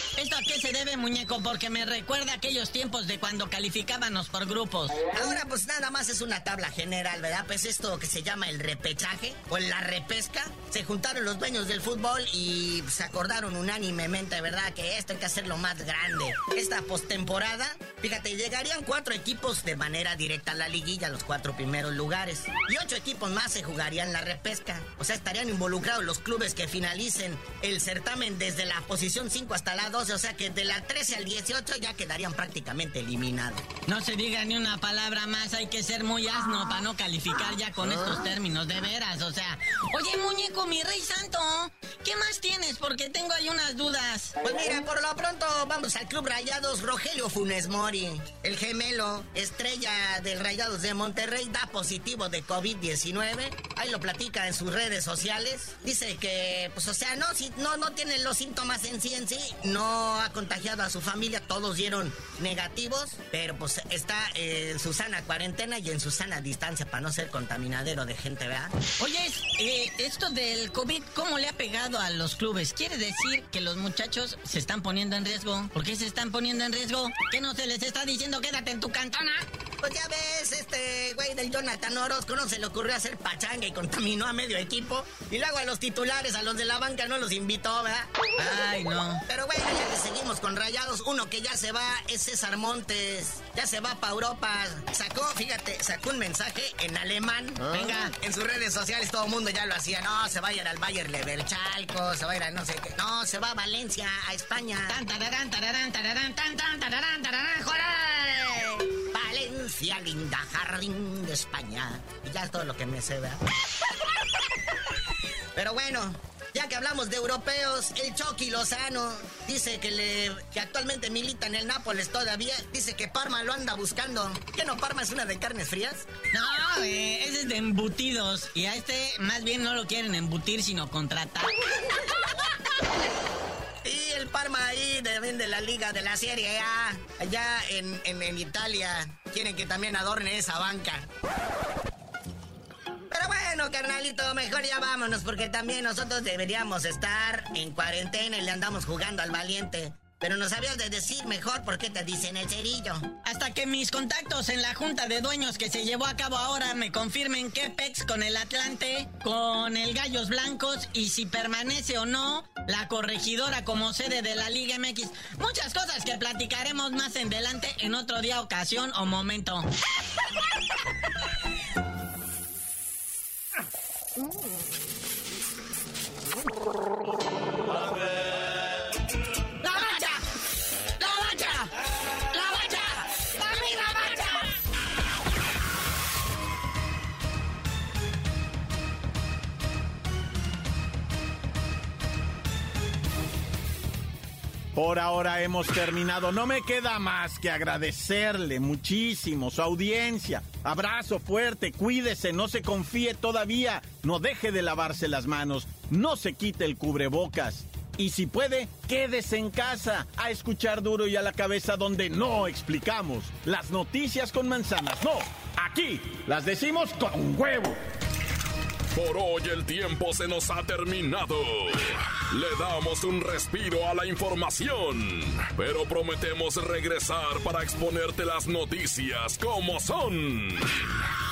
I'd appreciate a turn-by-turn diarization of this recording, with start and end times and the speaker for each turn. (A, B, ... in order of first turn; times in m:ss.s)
0:00.2-0:05.0 A
0:05.1-0:33.6 B
0:33.9-0:44.4 A
0:44.4-1:08.7 B
1:09.0-1:19.5 A
1:19.8-1:28.1 B
1:28.4-1:29.2 A
1:29.3-1:45.0 B
1:37.7-1:38.1 A
1:44.9-1:48.8 A
1:49.1-1:53.4 B
1:55.6-2:06.1 B
2:06.3-2:11.5 A
2:13.8-2:21.1 B
2:23.1-2:33.1 B
2:33.2-2:49.7 A
2:59.6-3:00.2 B
3:01.0-3:01.6 B
3:02.3-3:04.3 B
3:14.7-3:37.8 C
3:38.9-3:51.1 D